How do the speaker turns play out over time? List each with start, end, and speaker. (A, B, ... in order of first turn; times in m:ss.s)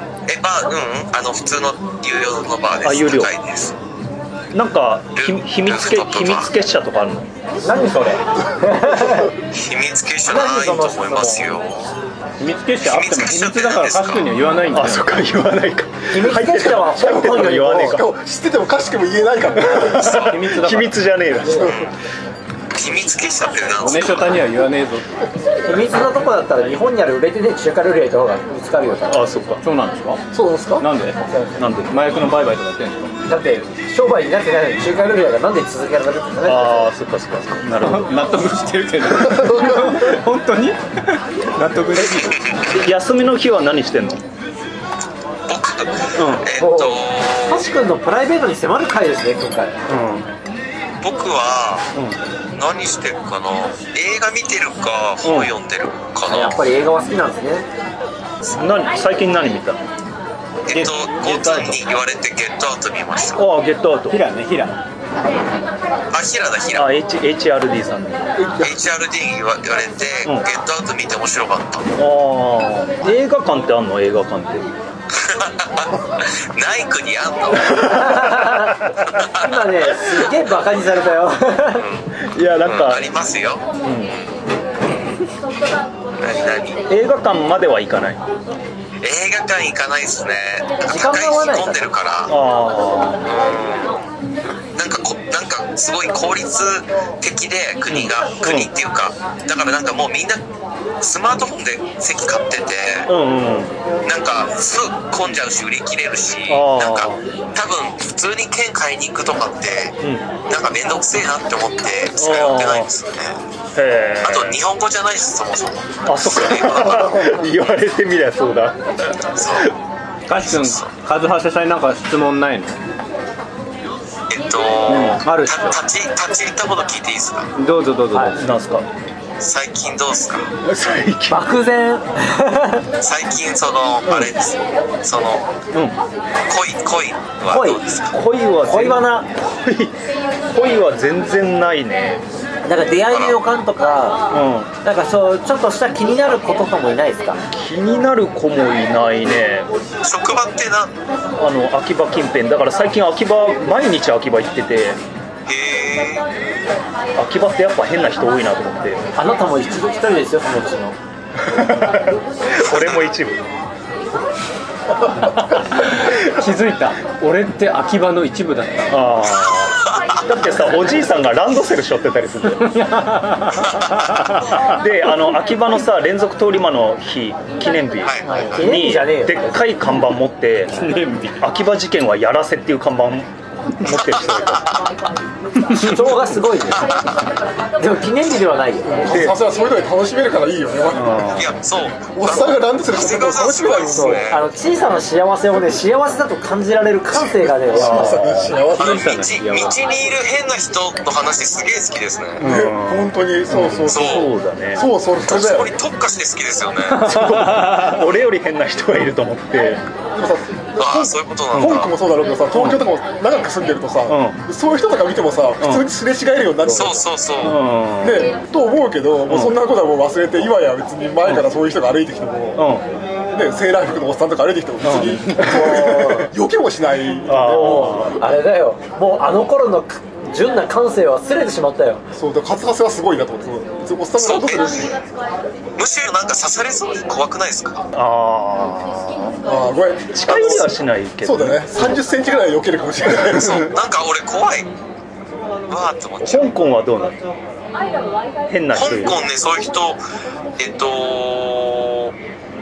0:00.3-0:03.8 A
0:02.8-0:03.3 B
0:04.5-0:07.3 B
0:05.1-0:06.5 A
0:07.6-0:09.3 C
0:09.5-0:11.9 A
0:10.3-0:11.5 C
0:12.4-0:15.1 D
0:12.8-0:14.4 A
0:14.7-0:18.1 B
0:16.1-0:18.0 C
0:16.9-0:20.1 E
0:19.6-0:21.9 B
0:20.1-0:21.0 D
0:21.5-0:21.9 A
0:22.7-0:24.4 A
0:23.8-0:25.2 D
0:25.6-0:29.2 C
0:29.1-0:29.6 B
0:29.6-0:30.2 D
0:30.3-0:30.8 E
0:30.8-0:31.2 D
0:31.6-0:31.9 B
0:31.9-0:33.1 D
0:33.2-0:36.9 C
0:36.4-0:38.2 B
0:37.8-0:42.3 D
0:39.2-0:40.0 E
0:42.2-0:42.6 A
0:42.7-0:44.2 B
0:45.5-0:47.7 A
0:46.1-0:46.5 B
0:46.5-0:49.8 C
0:49.9-0:50.3 B
0:51.0-0:51.9 A
0:51.9-0:52.2 B
0:52.5-0:56.7 A
0:55.2-0:55.5 B
0:56.2-0:57.6 C
0:58.5-0:59.8 B
1:00.7-1:03.4 A
1:00.7-1:01.1 D
1:01.2-1:01.8 B
1:03.3-1:04.2 B
1:04.1-1:04.8 D
1:06.1-1:06.9 A
1:06.7-1:08.3 B
1:08.4-1:08.7 E
1:08.6-1:11.9 A
1:12.0-1:14.7 B
1:15.1-1:18.3 A
1:17.8-1:18.8 C
1:19.1-1:19.9 A
1:19.3-1:21.8 C
1:21.8-1:22.1 A
1:22.3-1:23.1 B
1:22.6-1:23.6 A
1:23.8-1:24.1 B
1:26.2-1:26.8 A
1:26.9-1:28.2 B
1:29.0-1:32.3 A
1:30.8-1:31.9 C
1:32.3-1:33.2 B
1:33.2-1:34.0 A
1:34.7-1:40.4 A
1:37.9-1:38.7 B
1:41.0-1:43.1 A
1:43.1-1:43.7 B
1:44.0-1:53.4 A
1:46.5-1:47.3 B
1:50.0-1:50.3 B
1:52.2-1:52.9 B
1:53.7-1:54.6 B
1:54.2-1:57.2 A
1:56.0-1:59.7 B
1:59.3-1:59.7 A
2:00.3-2:02.8 D
2:00.3-2:00.9 A
2:04.3-2:07.5 A
2:04.9-2:05.8 D
2:07.6-2:08.4 D
2:08.3-2:08.9 B
2:09.4-2:10.5 A
2:10.6-2:11.5 B
2:11.3-2:12.8 C
2:13.0-2:15.4 A
2:14.0-2:14.3 B
2:16.5-2:18.1 A
2:17.5-2:17.8 C
2:18.1-2:19.9 B
2:18.6-2:19.1 C
2:20.5-2:22.2 B
2:22.6-2:24.3 C
2:23.1-2:23.4 A
2:24.3-2:24.7 B
2:24.8-2:27.4 C
2:27.5-2:29.7 B
2:30.0-2:30.9 A
2:31.4-2:35.0 B
2:35.5-2:36.3 A
2:37.2-2:39.0 B
2:39.1-2:41.0 C
2:41.4-2:43.4 B
2:42.6-2:43.1 A
2:45.5-2:48.9 D
2:48.9-2:52.7 B
2:52.7-2:54.2 D
2:54.5-3:04.7 B
2:58.0-2:58.6 A
2:58.6-2:59.8 C
3:04.0-3:04.8 A
3:05.6-3:06.2 B
3:05.7-3:07.1 C
3:06.8-3:07.2 A
3:07.8-3:09.1 C
3:08.9-3:11.3 E
3:09.1-3:09.4 B
3:10.9-3:11.5 B
3:11.4-3:14.4 A
3:12.1-3:14.2 E
3:13.7-3:18.2 C
3:17.3-3:19.1 E
3:17.7-3:18.6 B
3:18.8-3:22.4 A
3:18.8-3:19.8 D
3:22.4-3:24.8 B
3:22.4-3:25.7 E
3:23.9-3:24.3 A
3:25.3-3:27.2 A
3:27.0-3:29.8 B
3:27.3-3:27.7 D
3:30.1-3:37.1 E
3:30.8-3:31.9 A
3:31.5-3:31.9 B
3:32.5-3:32.8 B
3:34.1-3:34.4 B
3:35.6-3:35.8 B
3:36.7-3:37.6 A
3:37.4-3:38.3 B
3:38.0-3:42.7 E
3:39.3-3:39.5 B
3:42.6-3:42.8 B
3:43.3-3:48.1 E
3:44.8-3:46.1 B
3:45.4-3:46.2 C
3:47.3-3:48.2 B
3:47.4-3:52.0 C
3:52.1-3:55.0 E
3:54.2-3:54.9 A
3:55.8-3:57.8 A
3:57.9-3:59.4 B
3:59.4-4:03.7 E
4:00.1-4:02.0 B
4:03.4-4:04.7 A
4:05.7-4:06.5 A
4:06.2-4:07.2 B
4:08.5-4:09.2 B
4:08.7-4:10.0 A
4:10.6-4:12.1 A